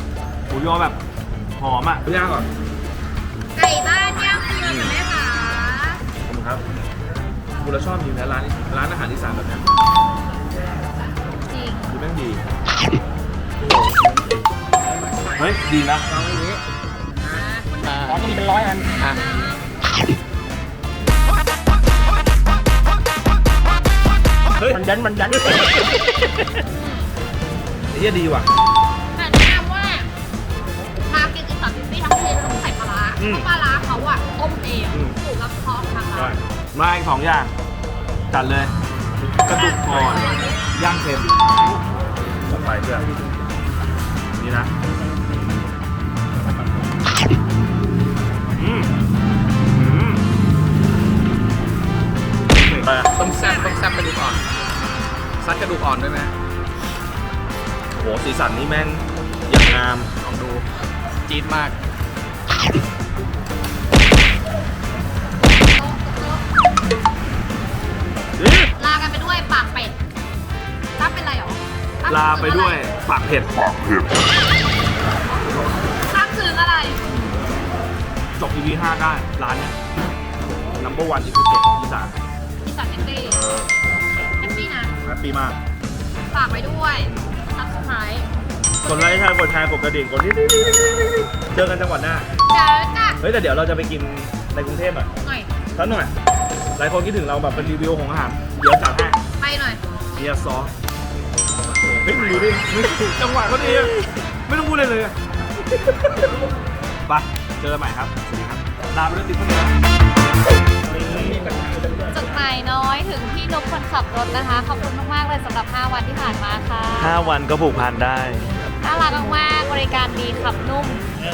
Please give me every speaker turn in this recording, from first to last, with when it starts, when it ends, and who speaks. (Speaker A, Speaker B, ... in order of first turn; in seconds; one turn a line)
Speaker A: 0.5-1.0
Speaker A: 1.6-2.5
Speaker B: 3.5-6.0
Speaker A: 4.6-5.0
Speaker A: 6.2-6.6
Speaker A: 7.6-9.7
Speaker B: 11.5-11.9
Speaker A: 11.9-12.4
Speaker A: 15.3-16.1
Speaker C: 16.1-16.6
Speaker B: 17.1-19.7
Speaker C: 17.2-19.2
Speaker A: 24.6-25.9
Speaker C: 24.7-26.3
Speaker B: 26.8-27.1
Speaker A: 27.9-28.5
Speaker B: 29.1-30.1
Speaker B: 31.1-36.4
Speaker A: 33.2-33.5
Speaker A: 34.9-35.2
Speaker A: 36.1-37.5
Speaker A: 38.3-38.7
Speaker A: 39.4-41.5
Speaker B: 39.5-40.5
Speaker A: 42.5-43.1
Speaker A: 44.3-44.7
Speaker A: 48.5-48.9
Speaker A: 49.7-50.2
Speaker A: 52.5-53.1
Speaker D: 53.1-54.4
Speaker B: 53.4-53.7
Speaker D: 55.4-56.3
Speaker A: 57.9-60.1
Speaker D: 60.2-60.6
Speaker D: 61.3-61.7
Speaker B: 65.7-66.4
Speaker A: 68.4-68.7
Speaker B: 68.8-70.0
Speaker B: 71.0-72.9
Speaker A: 72.0-74.1
Speaker B: 75.3-77.0
Speaker A: 77.0-77.5
Speaker A: 78.3-79.8
Speaker A: 80.8-82.2
Speaker B: 82.6-83.4
Speaker A: 83.2-83.7
Speaker B: 84.4-84.9
Speaker A: 85.0-85.6
Speaker B: 86.3-88.3
Speaker A: 88.8-92.3
Speaker B: 88.8-89.2
Speaker B: 92.5-93.2
Speaker A: 93.2-95.1
Speaker B: 95.2-95.5
Speaker A: 95.7-96.1
Speaker A: 96.8-99.2
Speaker B: 99.4-99.8
Speaker A: 100.1-100.7
Speaker A: 101.9-105.2
Speaker A: 105.7-106.3
Speaker A: 107.0-109.7
Speaker C: 111.1-111.8
Speaker B: 112.1-117.2
Speaker A: 117.0-118.5
Speaker B: 118.8-121.1